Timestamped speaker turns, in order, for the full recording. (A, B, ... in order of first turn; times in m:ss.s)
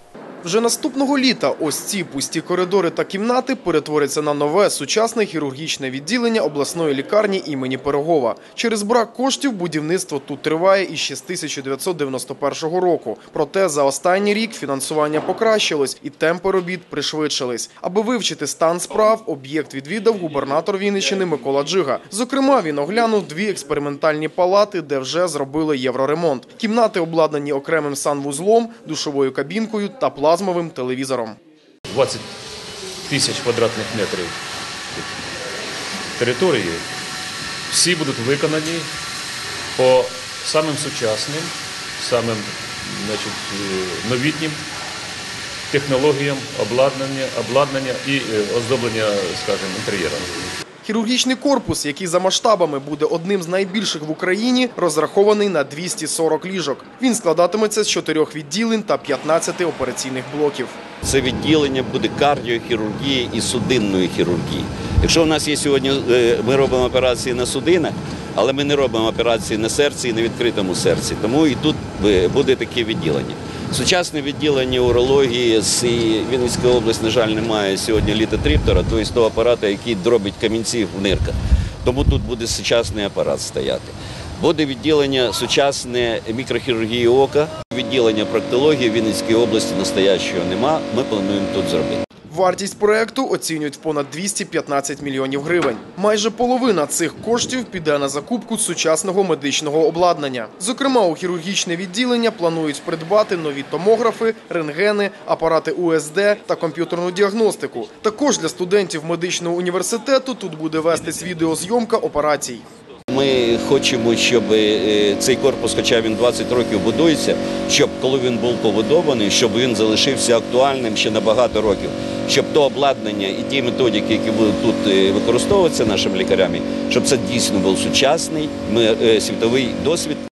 0:00.4-0:31.4 A
0:31.9-0:32.2 B
0:33.1-0:34.3 B
0:36.2-0:36.8 B
0:37.7-0:38.9 B
0:39.8-0:44.6 B
0:45.7-0:50.3 B
0:50.8-1:00.8 A
1:01.0-1:32.0 C
1:32.3-1:52.6 A
1:53.1-2:10.2 C